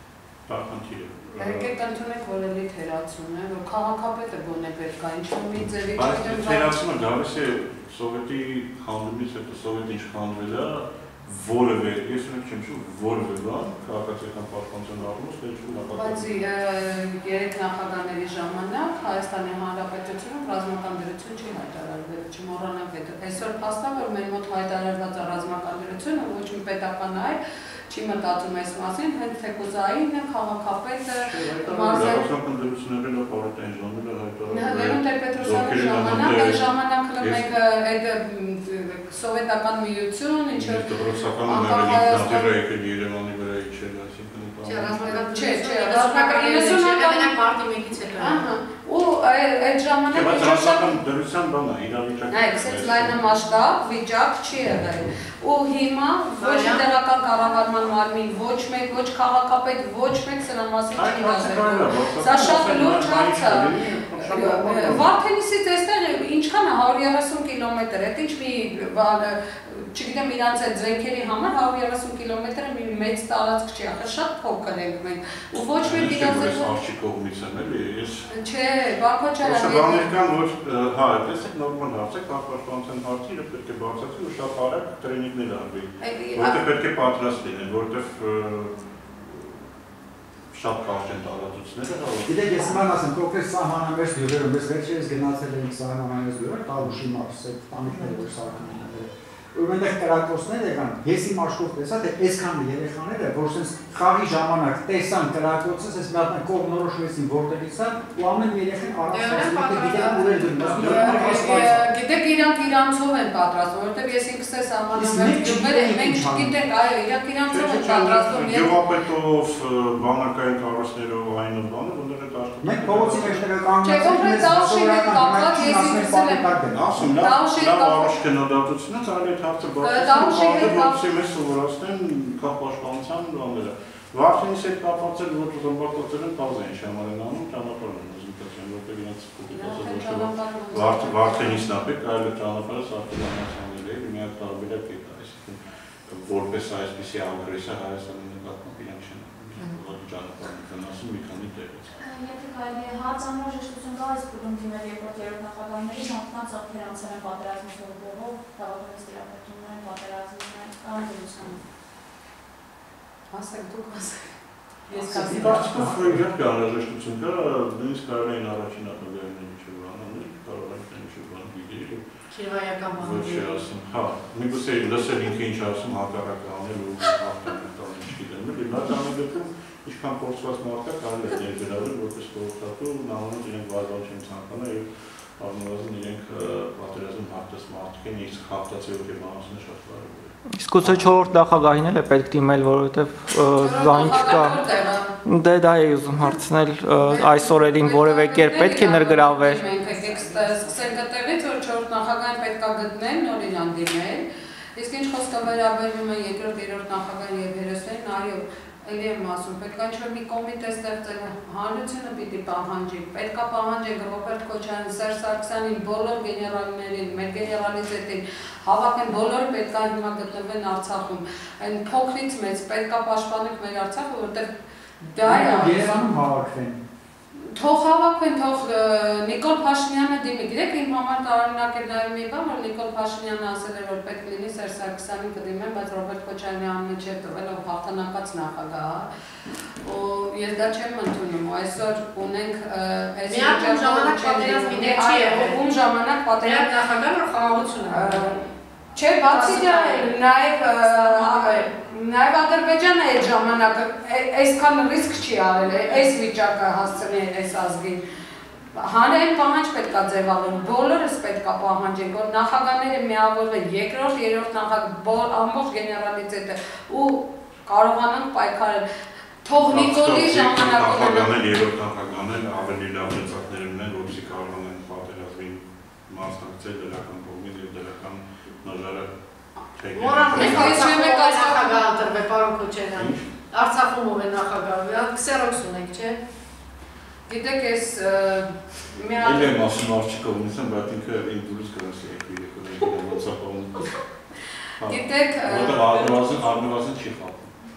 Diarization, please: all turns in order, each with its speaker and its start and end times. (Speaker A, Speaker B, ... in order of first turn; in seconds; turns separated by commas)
Speaker A: 0.5-1.7, Speaker B: 1.4-6.8, Speaker A: 6.0-16.4, Speaker B: 15.9-32.2, Speaker A: 31.2-36.6, Speaker B: 34.5-40.9, Speaker A: 37.2-37.5, Speaker A: 40.5-45.2, Speaker B: 41.4-42.5, Speaker C: 44.6-48.4, Speaker B: 45.3-47.3, Speaker B: 48.2-51.0, Speaker A: 50.1-53.2, Speaker B: 52.3-76.8, Speaker C: 56.4-56.8, Speaker A: 60.9-65.1, Speaker A: 75.8-78.3, Speaker B: 78.3-80.1, Speaker A: 79.4-89.7, Speaker B: 86.0-86.6, Speaker A: 90.5-92.8, Speaker D: 92.3-111.9, Speaker C: 109.1-111.6, Speaker A: 110.8-111.2, Speaker B: 110.8-118.7, Speaker D: 114.9-116.6, Speaker A: 117.5-123.4, Speaker D: 122.6-127.1, Speaker B: 123.8-126.5, Speaker A: 126.7-151.9, Speaker B: 127.1-128.2, Speaker B: 129.8-131.0, Speaker B: 139.5-141.7, Speaker E: 152.0-161.6, Speaker B: 163.3-164.4, Speaker B: 164.9-165.7, Speaker C: 164.9-165.7, Speaker D: 165.2-166.2, Speaker A: 165.2-172.0, Speaker C: 172.3-173.6, Speaker A: 173.0-191.1, Speaker F: 190.5-194.7, Speaker B: 193.6-195.2, Speaker F: 195.2-199.6, Speaker B: 197.0-204.2, Speaker C: 199.8-200.6, Speaker B: 204.8-224.5, Speaker B: 225.0-226.1, Speaker D: 225.2-226.8, Speaker B: 227.5-239.1, Speaker B: 239.8-246.7, Speaker C: 243.3-245.6, Speaker C: 246.4-248.4, Speaker B: 247.9-258.0, Speaker C: 249.2-250.2, Speaker C: 250.9-251.7, Speaker B: 258.8-268.8, Speaker B: 269.4-271.4, Speaker A: 269.6-279.1, Speaker A: 279.8-280.9, Speaker C: 279.9-286.2, Speaker B: 280.3-281.8, Speaker A: 282.9-283.3, Speaker B: 287.3-289.6, Speaker A: 289.2-293.9, Speaker A: 294.8-297.6, Speaker B: 294.9-296.6